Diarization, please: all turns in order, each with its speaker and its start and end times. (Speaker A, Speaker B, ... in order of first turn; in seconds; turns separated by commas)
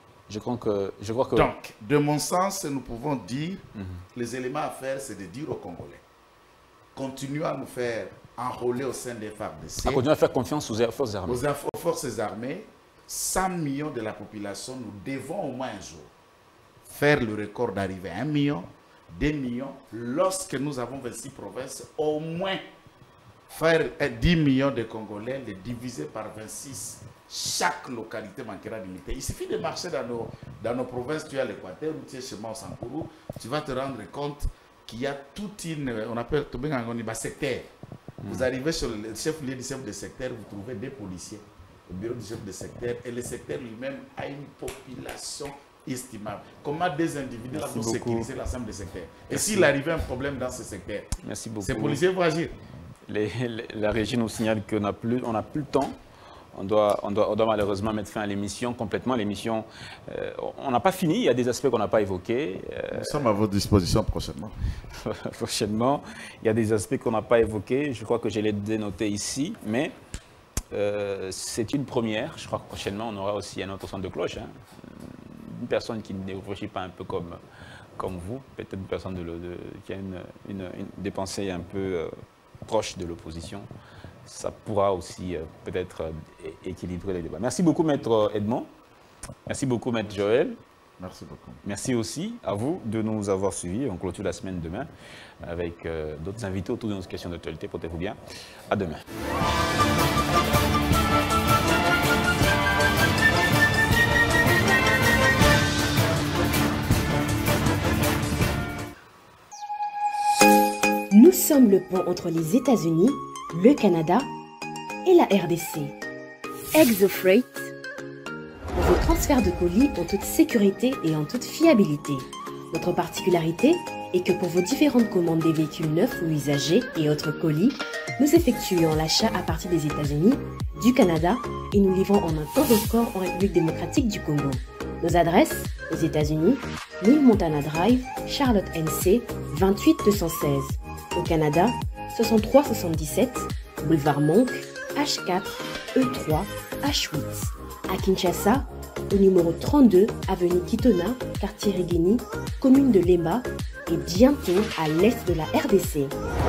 Speaker A: 0.3-1.5, Speaker B: 1.3-6.0, Speaker A: 3.8-4.0, Speaker B: 6.9-10.0, Speaker A: 9.8-11.4, Speaker B: 11.2-16.1, Speaker B: 16.9-22.6, Speaker B: 23.5-37.7, Speaker A: 38.2-38.5, Speaker B: 38.3-52.5, Speaker A: 47.5-48.3, Speaker A: 49.3-49.7, Speaker A: 51.2-52.0, Speaker A: 53.1-56.0, Speaker A: 56.5-63.1, Speaker B: 62.9-64.5, Speaker A: 64.9-69.9, Speaker A: 70.7-77.4, Speaker A: 78.0-82.1, Speaker A: 82.6-83.7, Speaker A: 84.2-88.7, Speaker A: 89.5-90.6, Speaker B: 91.0-91.6, Speaker A: 91.6-94.9, Speaker A: 95.4-98.2, Speaker A: 98.7-99.0, Speaker C: 111.1-114.3, Speaker C: 115.0-116.0, Speaker C: 116.7-117.7, Speaker C: 118.7-156.1